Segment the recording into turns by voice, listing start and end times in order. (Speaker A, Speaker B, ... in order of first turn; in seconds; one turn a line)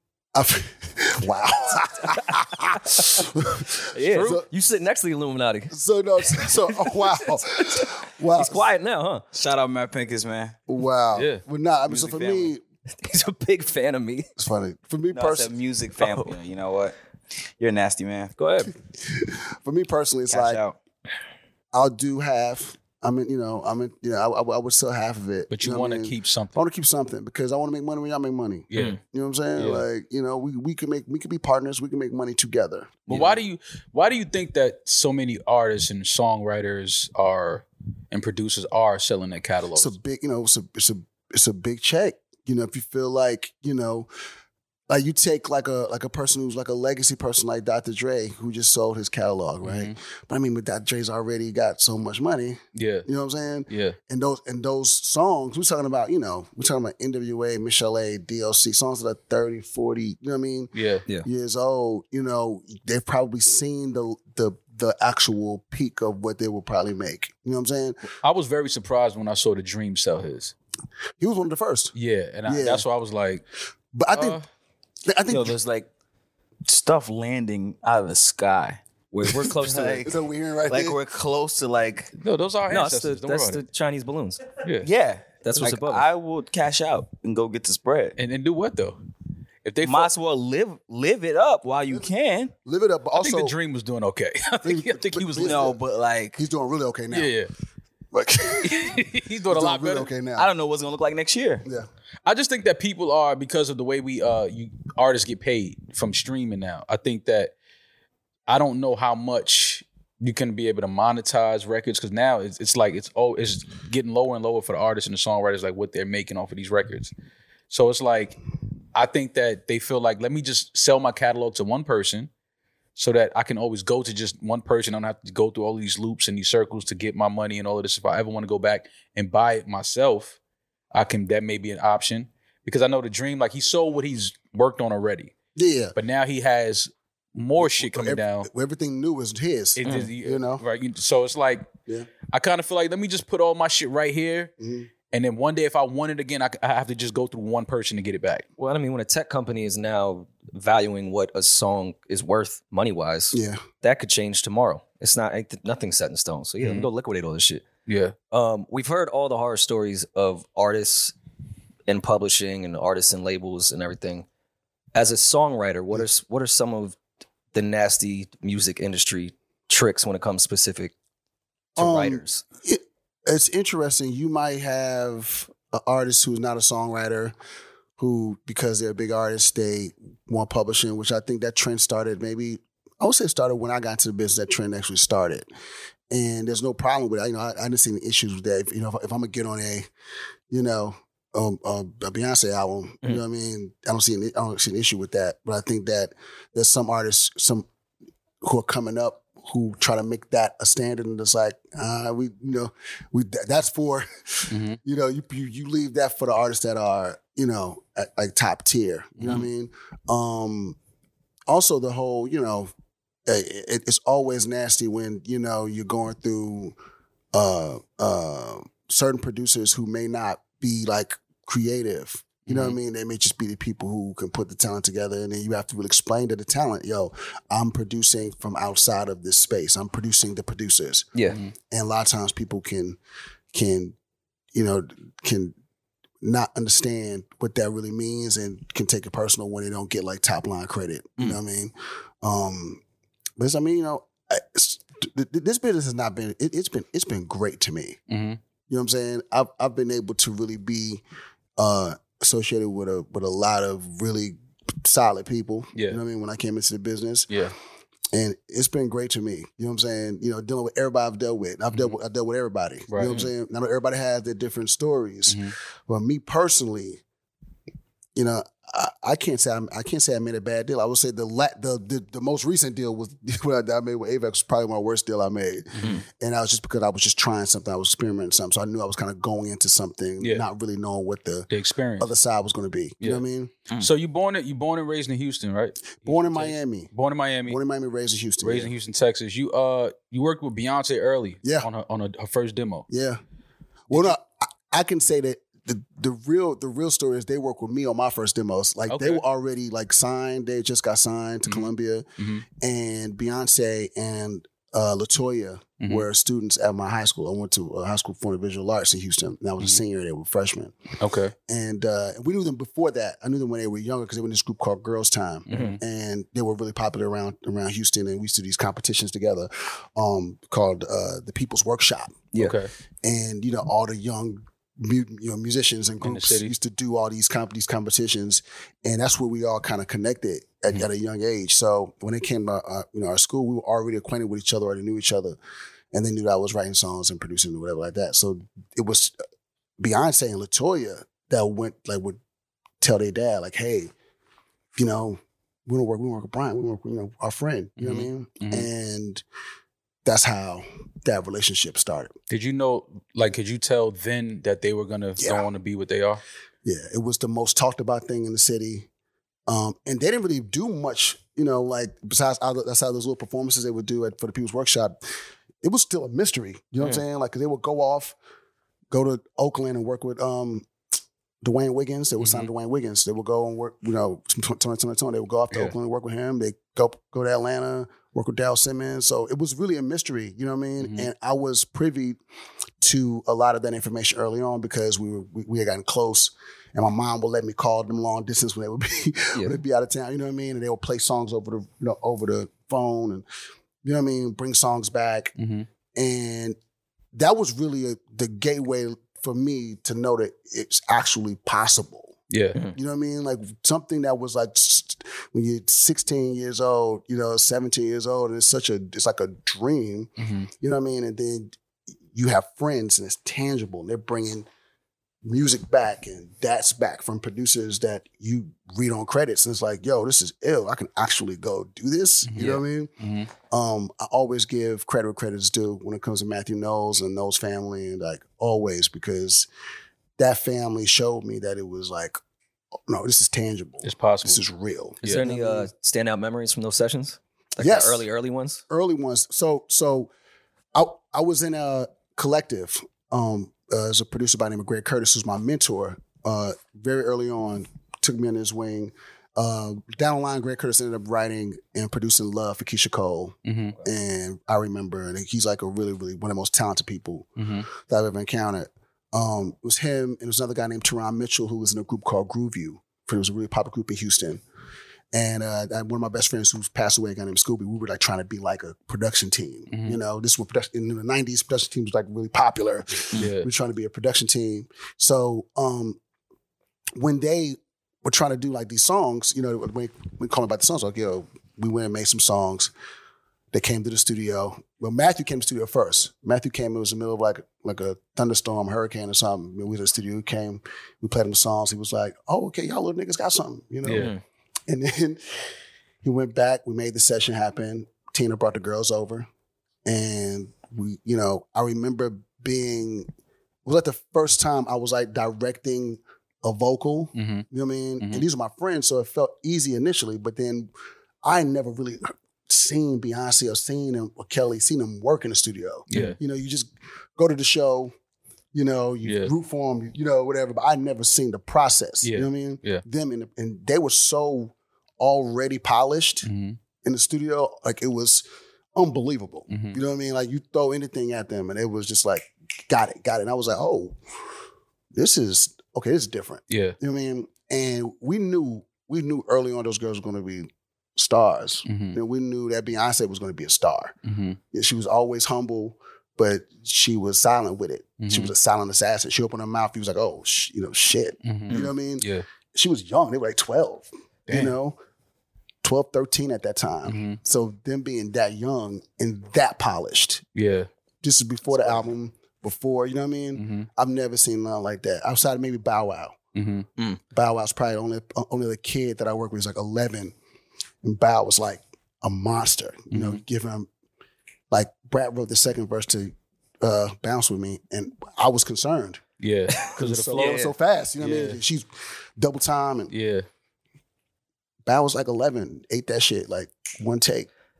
Speaker A: 0.3-4.5
Speaker B: 3.9-5.7
Speaker C: 4.1-4.4
Speaker A: 5.7-8.7
Speaker B: 6.3-9.2
Speaker D: 9.3-10.6
Speaker A: 10.7-12.6
Speaker C: 11.1-11.4
Speaker D: 11.8-12.5
Speaker B: 13.0-14.3
Speaker A: 14.4-15.5
Speaker D: 15.1-16.9
Speaker B: 16.0-16.3
Speaker D: 17.6-18.3
Speaker B: 18.4-18.7
Speaker A: 18.9-20.6
Speaker D: 20.3-20.8
Speaker A: 21.7-33.4
Speaker C: 25.5-26.6
Speaker C: 28.7-29.0
Speaker C: 29.6-29.8
Speaker C: 33.1-39.9
Speaker A: 39.7-44.1
Speaker A: 44.9-60.7
Speaker C: 49.6-49.9
Speaker C: 52.7-53.1
Speaker C: 53.7-54.0
Speaker C: 60.7-61.0
Speaker A: 61.2-68.0
Speaker C: 68.2-70.5
Speaker A: 71.2-71.9
Speaker C: 71.9-73.4
Speaker A: 72.4-72.8
Speaker A: 73.9-74.4
Speaker C: 74.1-74.5
Speaker A: 75.0-75.6
Speaker D: 75.3-75.9
Speaker D: 76.6-82.1
Speaker B: 79.1-80.1
Speaker A: 80.0-81.0
Speaker C: 82.2-83.6
Speaker B: 82.7-84.4
Speaker C: 84.6-84.9
Speaker D: 84.8-88.2
Speaker B: 85.4-86.1
Speaker C: 88.2-89.0
Speaker C: 89.6-90.1
Speaker D: 89.8-92.5
Speaker A: 92.6-93.5
Speaker C: 93.2-95.6
Speaker A: 94.6-95.8
Speaker D: 95.4-96.4
Speaker A: 96.3-97.3
Speaker C: 97.1-97.5
Speaker A: 98.1-99.0
Speaker C: 98.6-100.1
Speaker A: 99.5-100.5
Speaker D: 100.4-101.7
Speaker C: 102.2-107.5
Speaker C: 108.5-117.1
Speaker C: 117.7-118.3
Speaker C: 118.9-122.3
Speaker C: 123.0-130.4
Speaker C: 130.9-135.3
Speaker A: 135.5-135.9
Speaker C: 135.9-138.5
Speaker A: 137.6-140.6
Speaker C: 139.8-141.7
Speaker C: 142.3-144.5
Speaker A: 144.6-144.9
Speaker C: 145.1-148.4
Speaker B: 148.6-157.7
Speaker A: 153.3-153.6
Speaker C: 156.6-156.9
Speaker C: 157.9-158.1
Speaker B: 158.3-161.1
Speaker B: 161.9-164.2
Speaker B: 164.9-167.0
Speaker B: 167.5-170.9
Speaker B: 171.8-172.4
Speaker A: 171.8-177.3
Speaker A: 178.0-185.5
Speaker A: 186.1-189.9
Speaker A: 190.5-197.7
Speaker A: 198.4-210.8
Speaker C: 204.5-204.8
Speaker C: 209.2-209.5
Speaker A: 211.5-212.7
Speaker A: 213.3-216.7
Speaker A: 217.3-231.1
Speaker C: 222.5-222.8
Speaker A: 231.7-233.0
Speaker A: 233.5-233.9
Speaker A: 234.5-235.5
Speaker A: 236.2-242.8
Speaker A: 243.4-248.0
Speaker C: 248.1-248.4
Speaker A: 248.7-251.0
Speaker A: 251.6-257.3
Speaker C: 255.7-256.0
Speaker A: 258.1-267.0
Speaker C: 261.7-262.0
Speaker C: 262.9-263.3
Speaker C: 265.3-265.5
Speaker A: 268.1-283.5
Speaker C: 281.5-282.1
Speaker C: 283.8-287.6
Speaker A: 286.0-286.9
Speaker A: 287.4-288.7
Speaker C: 288.4-292.9
Speaker A: 291.4-291.7
Speaker A: 292.9-293.2
Speaker A: 293.9-302.0
Speaker C: 298.9-299.2
Speaker C: 301.5-302.4
Speaker A: 302.6-310.7
Speaker C: 311.0-311.3
Speaker A: 311.5-322.3
Speaker C: 315.5-315.8
Speaker C: 322.4-322.7
Speaker A: 323.0-335.4
Speaker C: 326.0-326.5
Speaker A: 335.9-339.1
Speaker A: 339.8-342.2
Speaker A: 342.8-343.9
Speaker A: 344.7-349.2
Speaker C: 347.8-348.7
Speaker A: 350.0-352.1
Speaker C: 352.3-356.2
Speaker A: 355.2-355.5
Speaker A: 356.6-358.9
Speaker A: 359.5-365.0
Speaker A: 365.6-368.1
Speaker A: 368.9-370.7
Speaker A: 371.4-382.2
Speaker C: 372.2-372.5
Speaker C: 380.8-381.1
Speaker A: 382.8-393.2
Speaker A: 393.8-395.3
Speaker C: 395.4-395.6
Speaker A: 395.9-396.6
Speaker A: 397.1-402.1
Speaker C: 402.3-402.6
Speaker A: 402.7-411.5
Speaker C: 410.2-410.5
Speaker A: 412.1-414.5
Speaker A: 415.2-429.5
Speaker C: 422.2-423.3
Speaker A: 430.2-432.2
Speaker A: 432.9-435.7
Speaker C: 433.8-434.4
Speaker B: 435.0-438.6
Speaker A: 437.6-438.1
Speaker A: 438.7-440.1
Speaker A: 440.7-464.4
Speaker C: 453.4-453.8
Speaker C: 457.4-457.7
Speaker A: 465.1-476.0
Speaker C: 469.7-470.0
Speaker C: 473.2-473.5
Speaker A: 477.0-482.7
Speaker A: 483.5-494.1
Speaker C: 493.8-494.1
Speaker B: 493.9-494.2
Speaker A: 494.7-495.2
Speaker A: 496.0-499.3
Speaker A: 499.8-503.1
Speaker A: 503.6-510.7
Speaker C: 507.1-507.4
Speaker A: 511.2-517.9
Speaker C: 515.9-516.2
Speaker A: 518.5-526.3
Speaker C: 519.0-519.3
Speaker C: 522.0-522.8
Speaker C: 526.2-526.6
Speaker A: 526.8-534.0
Speaker C: 529.5-529.8
Speaker A: 534.9-543.9
Speaker C: 536.5-536.8
Speaker C: 541.6-542.0
Speaker C: 544.0-544.4
Speaker A: 544.5-554.8
Speaker C: 548.0-548.3
Speaker C: 551.2-552.2
Speaker C: 554.3-554.5
Speaker A: 555.6-560.2
Speaker C: 556.9-557.2
Speaker C: 560.3-560.7
Speaker A: 561.0-566.1
Speaker C: 563.4-563.7
Speaker C: 566.3-566.7
Speaker A: 567.1-570.1
Speaker A: 570.8-573.7
Speaker C: 572.9-573.2
Speaker A: 574.5-579.0
Speaker C: 579.2-580.4
Speaker B: 579.5-580.5
Speaker A: 579.7-582.9
Speaker C: 581.0-581.4
Speaker C: 582.9-583.2
Speaker A: 584.6-587.3